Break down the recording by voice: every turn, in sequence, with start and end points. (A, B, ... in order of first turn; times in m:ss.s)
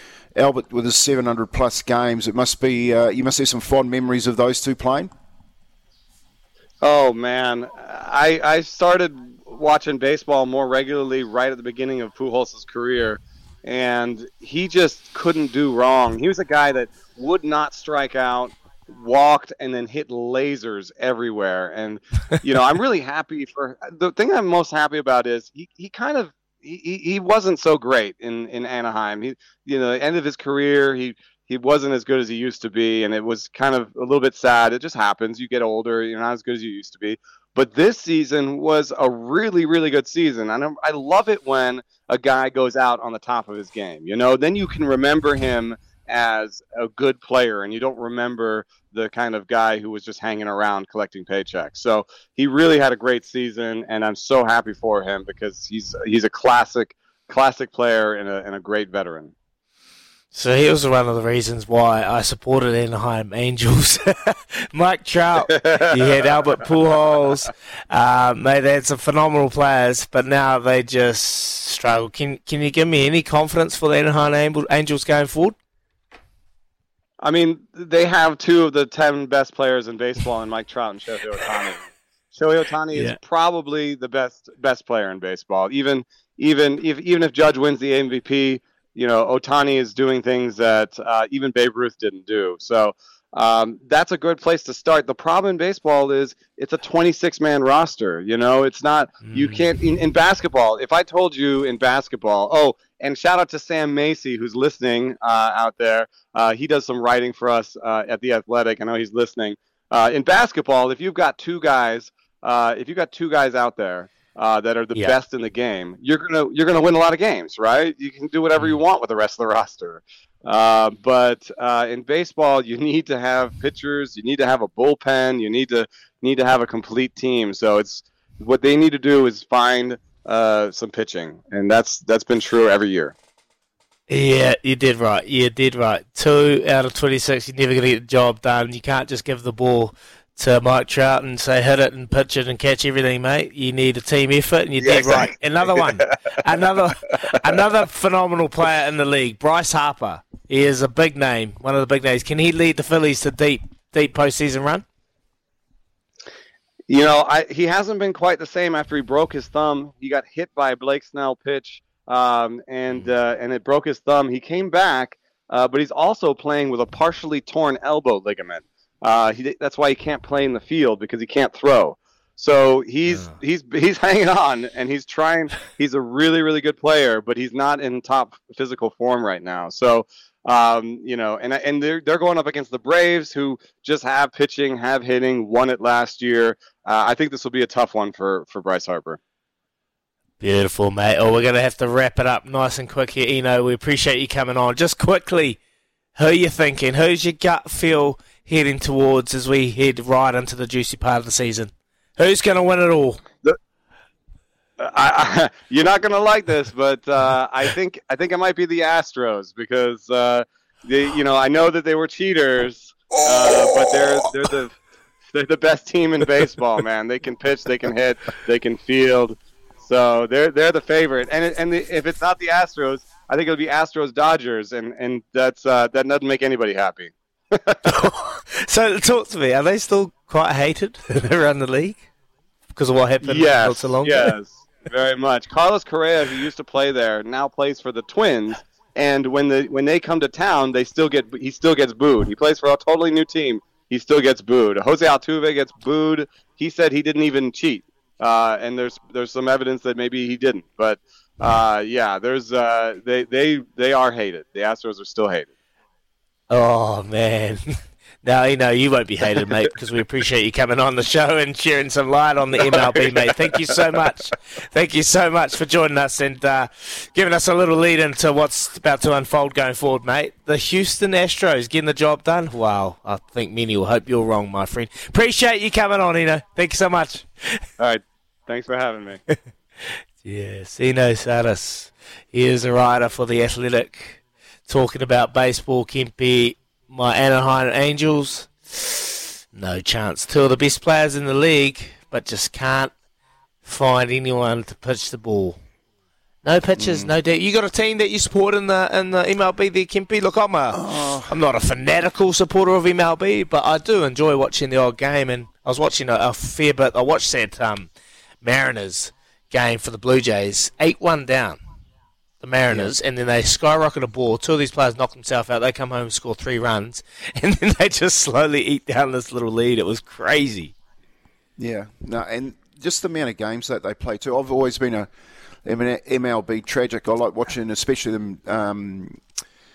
0:00.4-0:05.1 A
0:06.8-0:59.3 B
1:00.3-1:15.6 C
1:05.6-1:05.8 B
1:17.2-2:13.2 B
1:22.9-1:23.2 C
1:39.2-1:39.6 C
2:14.1-2:34.8 C
2:24.8-2:26.1 B
2:36.9-3:09.2 B
2:53.1-2:53.3 C
3:10.4-3:15.6 C
3:16.2-3:23.2 C
3:24.8-3:34.8 B
3:35.3-3:47.8 B
3:47.8-3:52.0 C
3:52.7-3:54.4 C
3:53.2-4:15.5 B
4:16.5-4:17.6 C
4:18.2-4:37.6 C
4:37.8-4:39.2 B
4:40.2-4:52.9 C
4:53.6-4:55.6 C
4:56.4-5:07.9 C
4:56.8-4:57.1 A
5:00.7-5:01.3 A
5:08.4-5:11.6 C
5:12.4-5:20.7 C
5:12.7-5:12.9 A
5:21.6-5:25.1 A
5:25.6-5:29.2 A